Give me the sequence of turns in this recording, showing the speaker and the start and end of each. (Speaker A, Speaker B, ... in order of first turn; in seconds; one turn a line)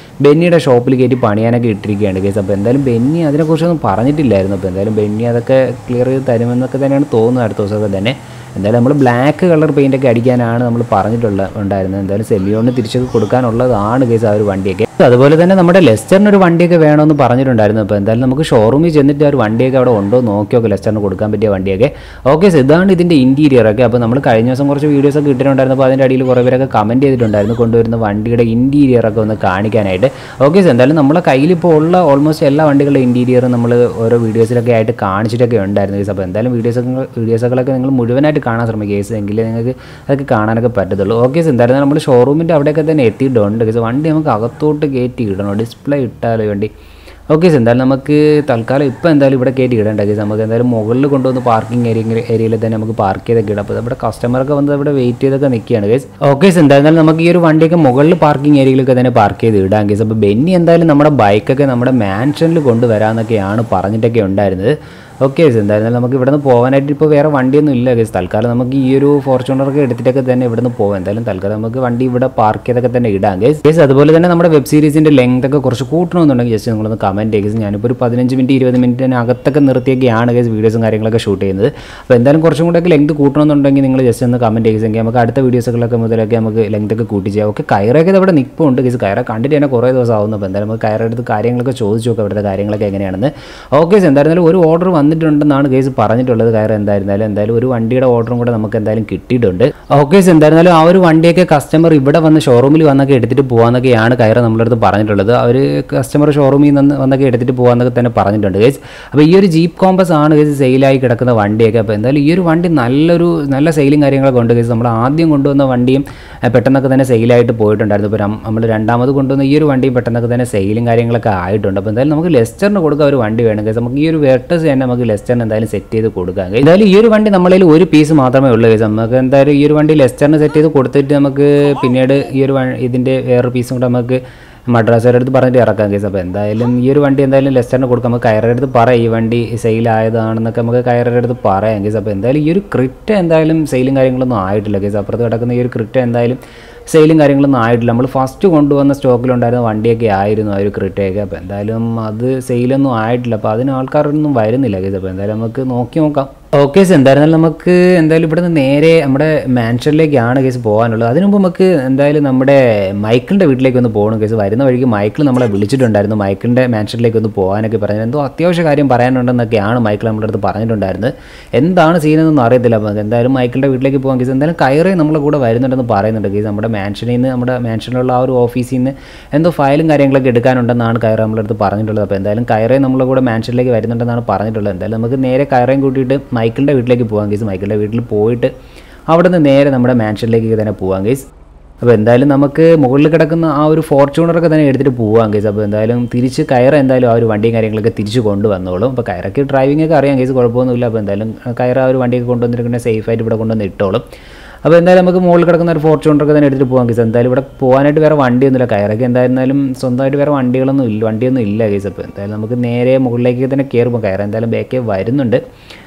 Speaker A: 0.2-46.7
Speaker A: 47.3-188.5
Speaker A: 189.1-191.3
Speaker A: 191.8-204.0
Speaker A: 204.7-215.4